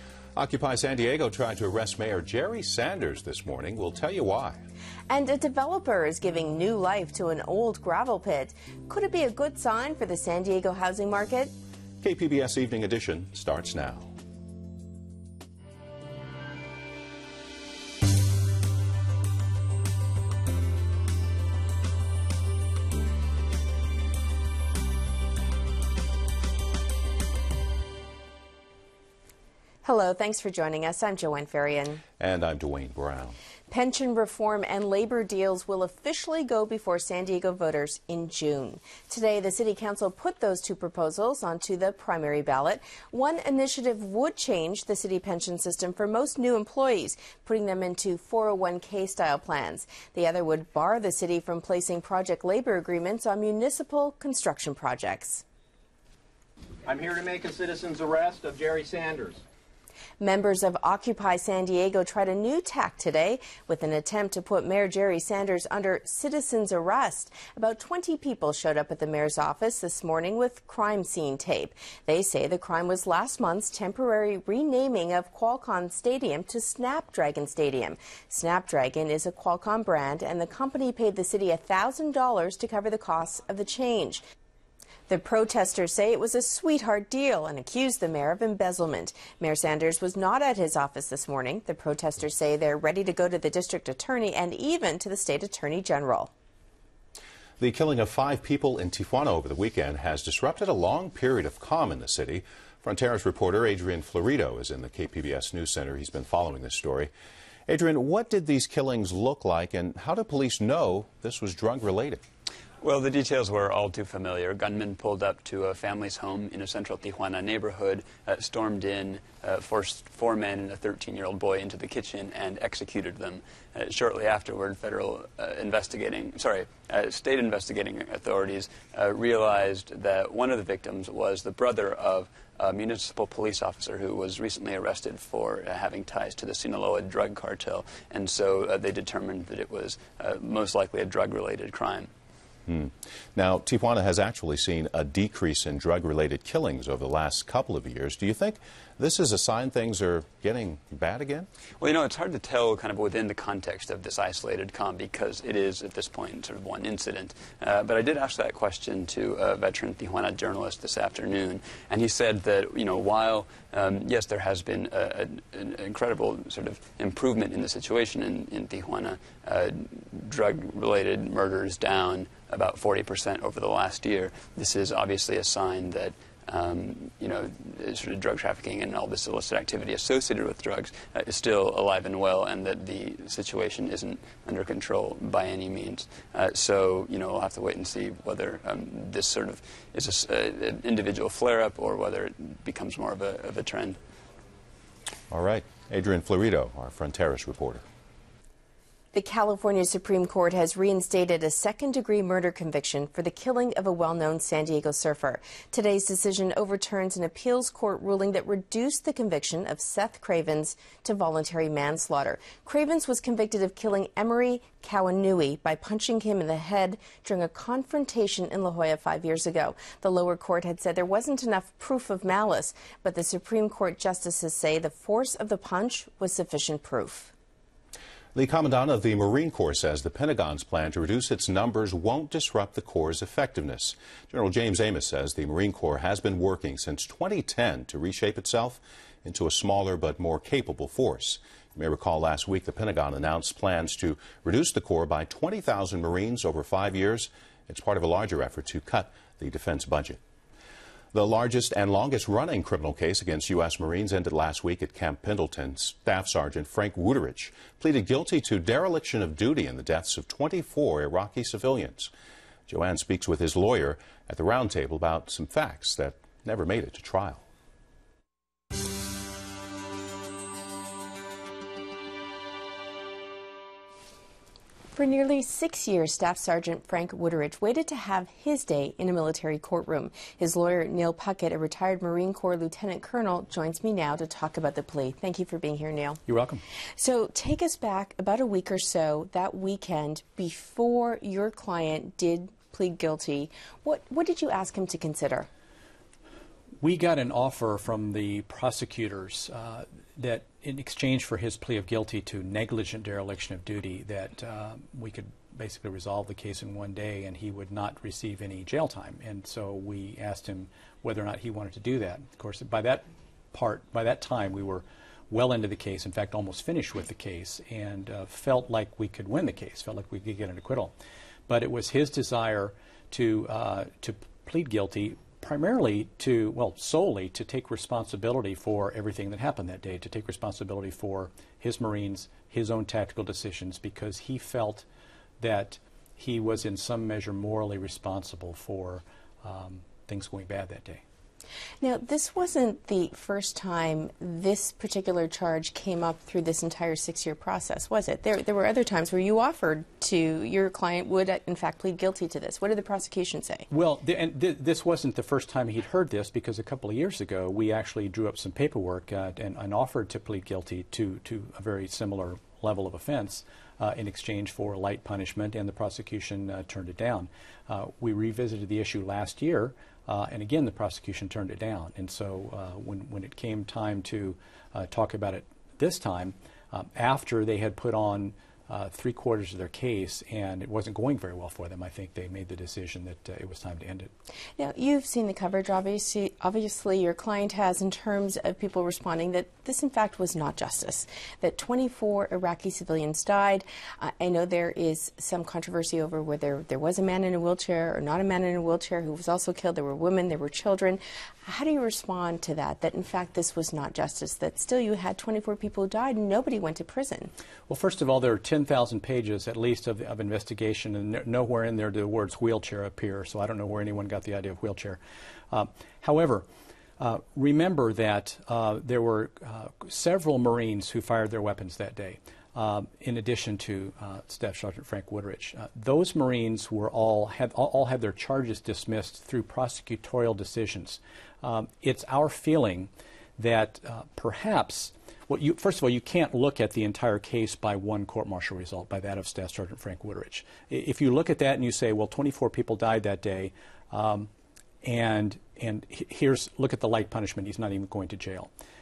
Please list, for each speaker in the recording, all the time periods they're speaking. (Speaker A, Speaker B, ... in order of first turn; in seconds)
Speaker A: 0.3-4.6, 12.0-14.1, 32.2-33.4, 97.6-107.1, 107.7-112.2, 142.7-151.5, 195.3-197.8, 228.3-250.2, 251.1-262.1, 262.7-267.4
Speaker B: 5.1-11.5, 29.8-32.0, 33.7-55.4, 60.2-84.2, 85.1-96.3, 199.1-227.3, 274.9-286.2, 287.0-295.5, 341.8-353.6, 384.6-407.3
Speaker C: 56.8-59.4
Speaker D: 112.8-142.1, 151.8-194.0
Speaker E: 286.3-286.6, 296.8-320.9, 321.5-334.8, 335.4-341.0, 353.7-384.1, 407.7-415.0, 415.5-416.4, 417.0-444.3, 444.8-448.5